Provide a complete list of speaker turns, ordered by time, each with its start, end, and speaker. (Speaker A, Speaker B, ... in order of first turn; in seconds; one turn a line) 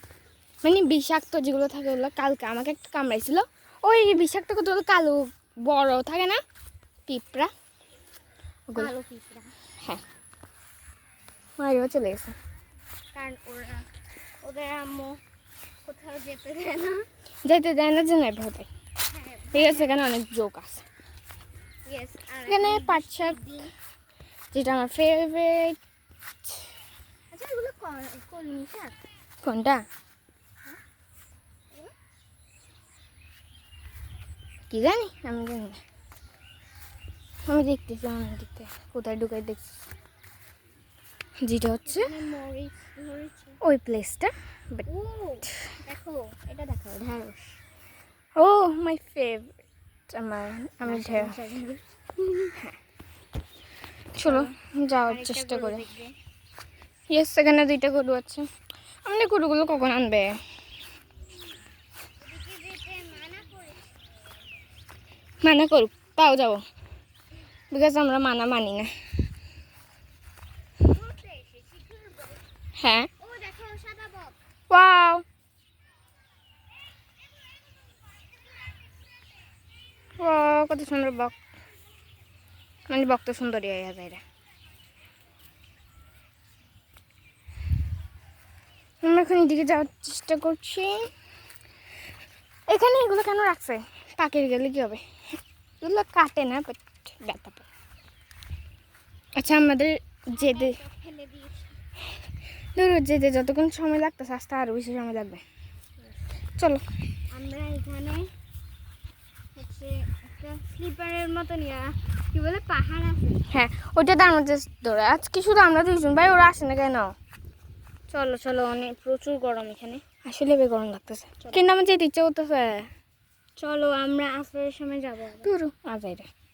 Speaker A: 0.6-6.4
Speaker A: 7.1-7.5
Speaker B: 8.7-9.5
Speaker A: 11.6-12.3
Speaker B: 13.1-13.8
Speaker B: 14.4-15.2
Speaker B: 15.8-17.1
Speaker A: 17.4-18.7
Speaker B: 19.1-20.0
Speaker A: 19.5-20.8
Speaker B: 21.9-23.7
Speaker A: 22.5-23.4
Speaker A: 24.5-25.8
Speaker B: 27.3-28.9
Speaker A: 29.4-29.8
Speaker A: 34.7-35.8
Speaker A: 37.5-39.7
Speaker A: 41.4-42.1
Speaker B: 41.9-43.6
Speaker A: 43.6-44.9
Speaker B: 44.9-47.5
Speaker A: 48.4-49.5
Speaker A: 50.1-51.4
Speaker B: 50.8-52.5
Speaker A: 54.1-55.8
Speaker B: 54.2-54.5
Speaker B: 55.0-56.1
Speaker A: 57.1-58.5
Speaker A: 59.0-60.4
Speaker B: 62.2-63.9
Speaker A: 65.4-66.6
Speaker A: 67.7-68.9
Speaker B: 70.8-72.4
Speaker A: 72.8-73.1
Speaker B: 73.2-74.3
Speaker A: 74.7-75.2
Speaker A: 80.2-81.3
Speaker A: 82.9-84.2
Speaker A: 89.0-91.1
Speaker A: 92.7-95.0
Speaker A: 95.8-97.6
Speaker A: 99.4-100.8
Speaker B: 100.3-101.7
Speaker A: 102.8-105.4
Speaker B: 107.3-108.2
Speaker B: 109.5-113.4
Speaker A: 113.5-117.1
Speaker B: 118.1-120.0
Speaker A: 120.1-122.9
Speaker B: 121.4-121.7
Speaker B: 123.6-125.5
Speaker A: 125.4-126.3